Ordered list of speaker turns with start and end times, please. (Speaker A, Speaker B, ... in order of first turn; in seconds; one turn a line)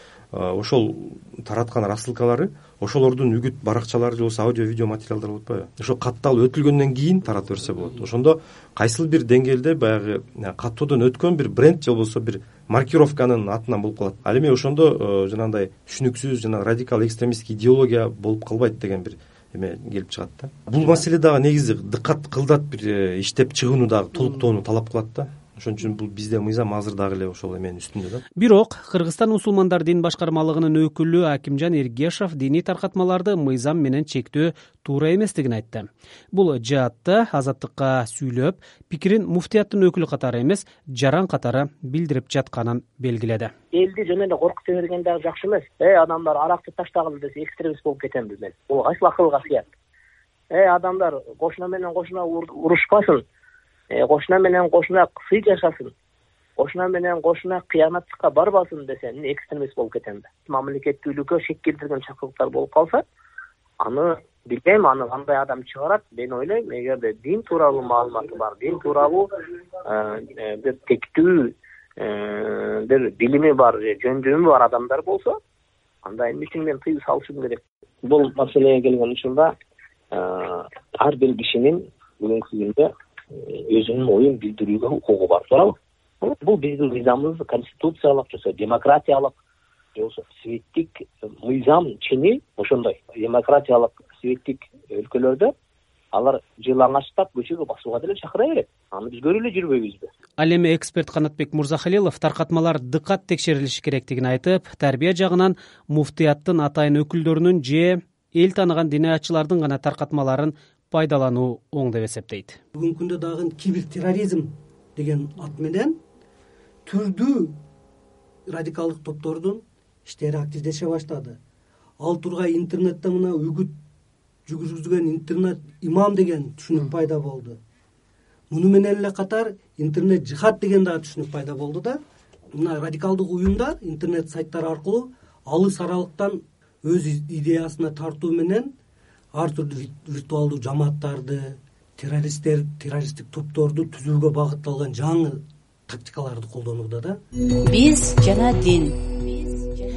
Speaker A: 0.3-28.2
Speaker B: 28.4-43.5
Speaker C: 43.7-49.6
Speaker C: 50.5-53.2
Speaker C: 53.9-55.9
Speaker C: 56.6-63.0
Speaker C: 63.8-69.3
Speaker C: 69.8-75.4
Speaker C: 76.0-79.5
Speaker C: 80.1-89.3
Speaker C: 90.0-95.5
Speaker C: 96.1-100.1
Speaker B: 100.4-112.6
Speaker D: 112.7-116.0
Speaker D: 116.8-117.5
Speaker D: 118.5-121.4
Speaker D: 122.0-123.7
Speaker D: 124.5-127.6
Speaker D: 128.5-132.0
Speaker D: 132.5-138.7
Speaker D: 139.3-147.2
Speaker E: 147.6-149.8